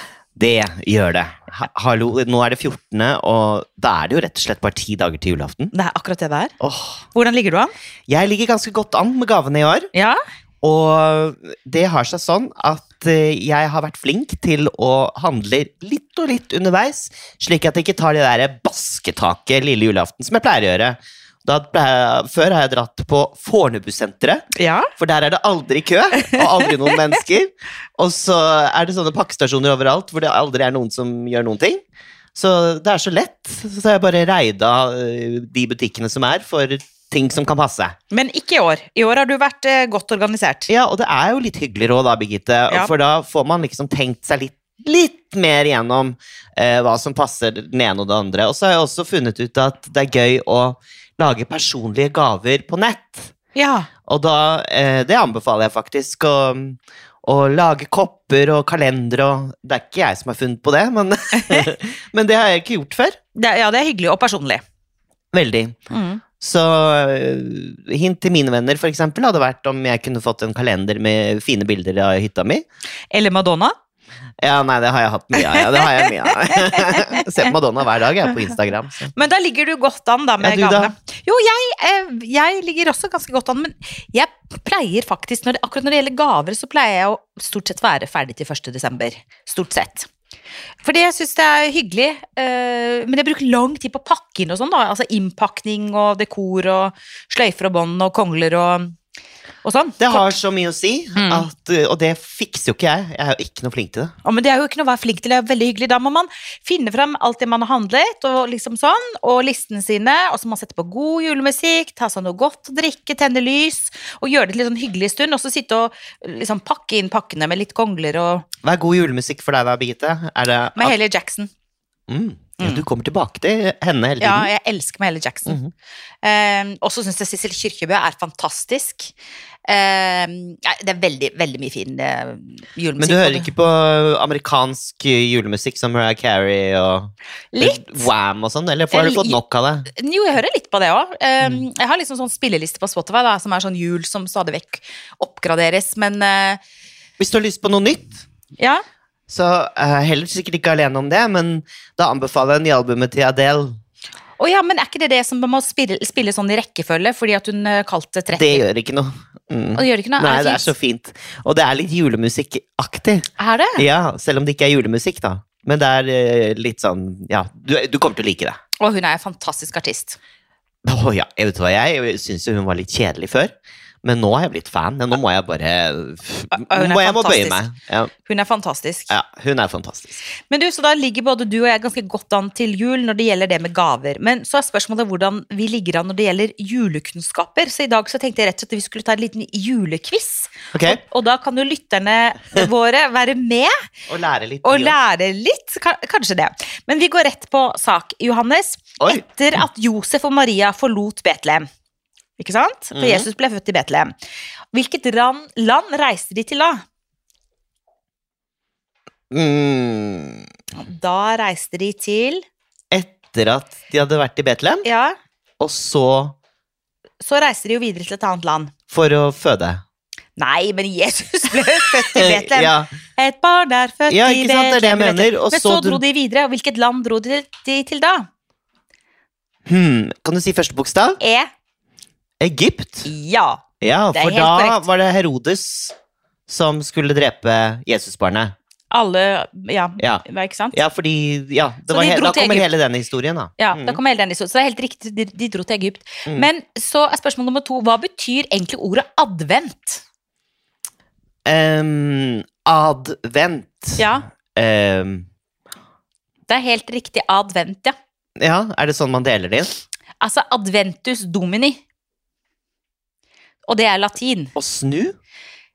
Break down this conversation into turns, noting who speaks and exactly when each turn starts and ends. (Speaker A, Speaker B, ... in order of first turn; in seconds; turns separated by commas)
Speaker A: 0.4-5.7, Speaker B: 5.7-6.5, Speaker A: 6.6-7.0, Speaker B: 7.1-7.7, Speaker A: 8.1-9.9, Speaker B: 9.9-10.2, Speaker A: 10.6-24.4, Speaker B: 24.6-24.9, Speaker A: 25.0-31.8, Speaker B: 26.2-26.9, Speaker A: 32.4-38.0, Speaker B: 38.1-40.7, Speaker A: 40.7-53.3, Speaker B: 53.5-53.9, Speaker A: 54.1-63.2, Speaker B: 61.4-61.7, Speaker B: 63.4-64.6, Speaker A: 65.3-65.8, Speaker B: 65.9-66.2, Speaker A: 66.4-72.6, Speaker B: 73.1-73.7, Speaker A: 74.4-79.1, Speaker B: 75.4-77.5, Speaker B: 79.1-90.1, Speaker A: 80.4-80.9, Speaker B: 90.8-99.0, Speaker B: 99.6-100.3, Speaker A: 100.0-104.1, Speaker B: 101.2-101.5, Speaker B: 104.2-118.5, Speaker A: 118.6-120.9, Speaker B: 120.8-121.5, Speaker A: 122.1-124.5, Speaker B: 122.6-122.8, Speaker B: 124.2-125.6, Speaker A: 125.5-125.7, Speaker B: 126.2-129.1, Speaker B: 129.7-133.5, Speaker A: 133.0-139.9, Speaker B: 137.5-138.1, Speaker B: 138.9-139.4, Speaker B: 139.9-146.6, Speaker A: 147.2-148.2, Speaker A: 149.3-153.8, Speaker B: 154.4-158.6, Speaker A: 158.3-168.6, Speaker B: 159.8-160.7, Speaker B: 163.4-163.8, Speaker B: 168.8-170.2, Speaker A: 170.8-173.5, Speaker A: 174.0-178.1, Speaker B: 176.5-177.7, Speaker B: 178.2-179.1, Speaker A: 179.1-180.2, Speaker B: 180.4-193.7, Speaker A: 190.7-191.0, Speaker A: 194.1-195.0, Speaker B: 194.6-201.7, Speaker B: 202.4-204.1, Speaker A: 202.9-203.3, Speaker B: 204.7-206.8, Speaker A: 209.3-210.5, Speaker B: 210.8-212.4, Speaker A: 212.9-214.8, Speaker B: 214.8-215.2, Speaker A: 215.6-216.3, Speaker B: 217.2-218.7, Speaker A: 218.9-219.8, Speaker B: 220.4-228.3, Speaker A: 222.2-222.9, Speaker A: 224.1-226.0, Speaker A: 229.7-231.2, Speaker B: 231.2-231.5, Speaker A: 232.4-233.1, Speaker B: 233.1-234.8, Speaker A: 233.8-235.9, Speaker A: 236.5-238.5, Speaker B: 238.9-240.8, Speaker A: 240.0-244.0, Speaker B: 241.9-242.7, Speaker B: 243.6-250.0, Speaker A: 251.5-255.3, Speaker B: 254.0-254.3, Speaker B: 256.5-257.9, Speaker A: 258.4-259.7, Speaker B: 260.2-261.8, Speaker B: 263.7-264.5, Speaker A: 264.6-265.1